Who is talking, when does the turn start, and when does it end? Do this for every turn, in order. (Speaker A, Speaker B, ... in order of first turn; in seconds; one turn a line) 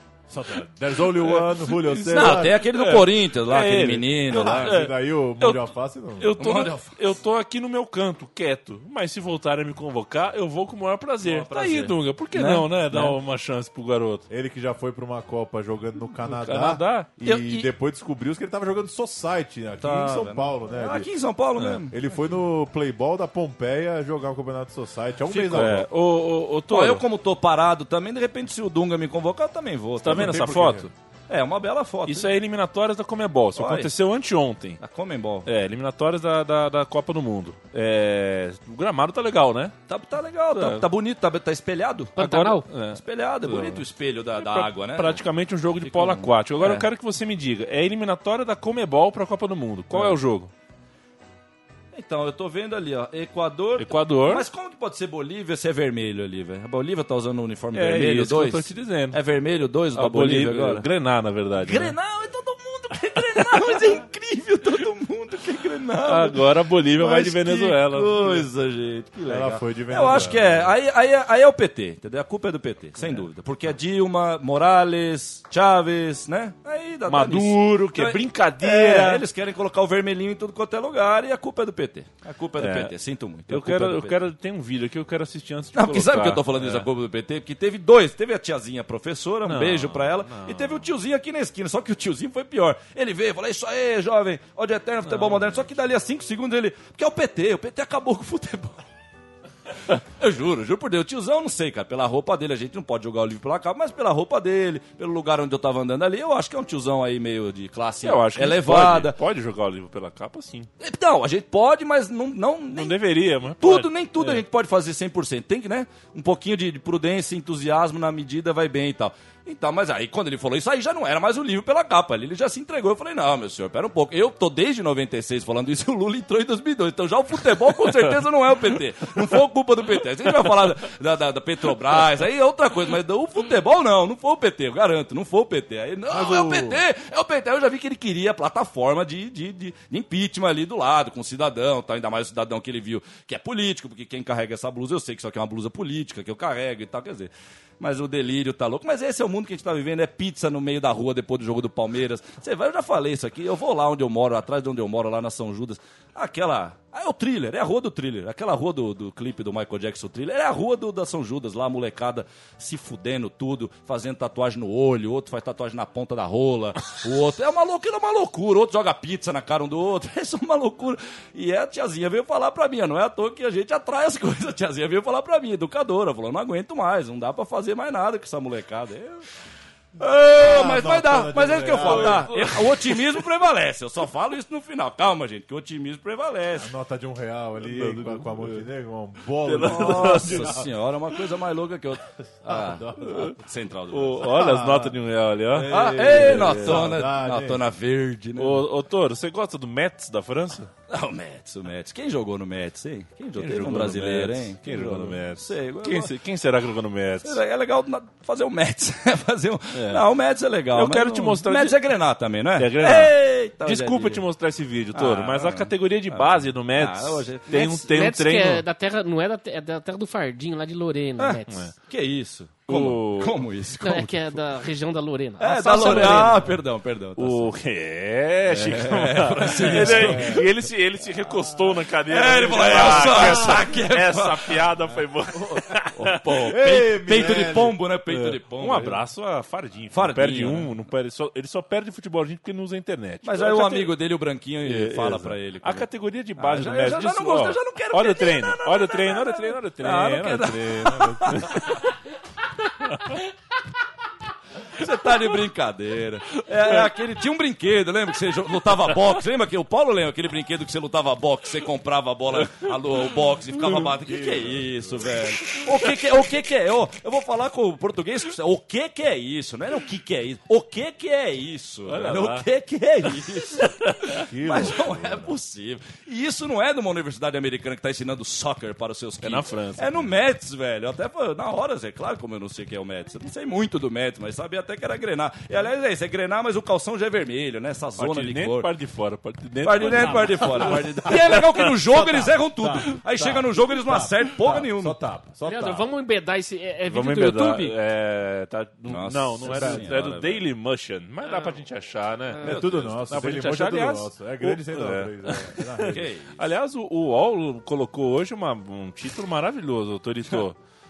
Speaker A: 0.3-2.6
Speaker B: 1.2-5.6
Speaker C: 2.1-4.7
Speaker A: 4.3-6.3
Speaker B: 6.2-14.2
Speaker C: 6.4-7.0
Speaker C: 11.2-13.2
Speaker A: 14.3-21.1
Speaker B: 16.3-17.1
Speaker C: 17.2-17.7
Speaker C: 19.8-21.9
Speaker A: 21.9-25.9
Speaker C: 25.3-25.9
Speaker B: 25.5-27.0
Speaker C: 26.7-30.5
Speaker B: 30.0-30.9
Speaker A: 30.1-30.9
Speaker C: 31.3-32.3
Speaker B: 32.0-34.8
Speaker C: 33.5-33.9
Speaker C: 34.8-35.5
Speaker B: 35.4-39.7
Speaker C: 39.9-42.2
Speaker B: 40.5-40.8
Speaker D: 42.1-42.7
Speaker B: 42.2-43.8
Speaker C: 42.9-45.2
Speaker B: 44.4-50.5
Speaker C: 45.8-46.9
Speaker C: 51.9-60.9
Speaker B: 53.8-54.4
Speaker B: 57.7-59.2
Speaker B: 59.9-61.9
Speaker C: 61.6-84.2
Speaker B: 63.3-63.8
Speaker B: 66.0-68.5
Speaker A: 69.3-70.7
Speaker B: 77.1-79.2
Speaker B: 82.6-82.9
Speaker B: 83.5-86.8
Speaker C: 85.7-98.8
Speaker B: 89.5-90.9
Speaker B: 95.0-95.6
Speaker C: 99.9-109.2
Speaker B: 108.0-110.7
Speaker C: 110.8-113.0
Speaker B: 112.7-114.4
Speaker C: 113.6-179.2
Speaker A: 136.1-136.8
Speaker C: 180.0-186.7
Speaker A: 180.4-182.4
Speaker B: 181.8-182.7
Speaker A: 186.6-190.6
Speaker B: 187.6-188.6
Speaker B: 189.4-190.6
Speaker C: 189.6-194.7
Speaker A: 192.5-193.3
Speaker B: 193.9-196.9
Speaker A: 194.4-194.9
Speaker A: 195.5-197.6
Speaker C: 195.7-198.7
Speaker B: 198.4-200.7
Speaker C: 200.9-206.1
Speaker B: 203.4-207.4
Speaker C: 207.2-214.2
Speaker B: 209.7-210.0
Speaker B: 210.7-211.8
Speaker B: 212.6-218.6
Speaker C: 214.9-217.7
Speaker D: 217.5-221.7
Speaker C: 221.2-224.4
Speaker B: 222.7-223.4
Speaker D: 223.8-226.4
Speaker C: 225.4-227.5
Speaker B: 225.8-226.2
Speaker B: 227.2-236.5
Speaker C: 228.5-230.4
Speaker A: 229.9-230.4
Speaker C: 232.1-234.6
Speaker C: 235.3-239.0
Speaker A: 236.5-237.7
Speaker B: 238.1-243.9
Speaker C: 239.9-240.7
Speaker C: 243.2-251.8
Speaker B: 244.6-251.6
Speaker C: 254.7-288.7
Speaker A: 263.8-265.2
Speaker B: 271.9-272.4
Speaker A: 274.3-275.3
Speaker B: 279.2-280.1
Speaker B: 288.0-291.7
Speaker C: 289.6-295.0
Speaker A: 291.1-291.4
Speaker A: 291.9-295.9
Speaker D: 295.5-297.8
Speaker B: 296.9-310.6
Speaker C: 298.9-300.4
Speaker A: 299.4-299.9
Speaker D: 301.2-301.6
Speaker C: 302.4-303.0
Speaker A: 302.4-306.0
Speaker C: 305.9-306.4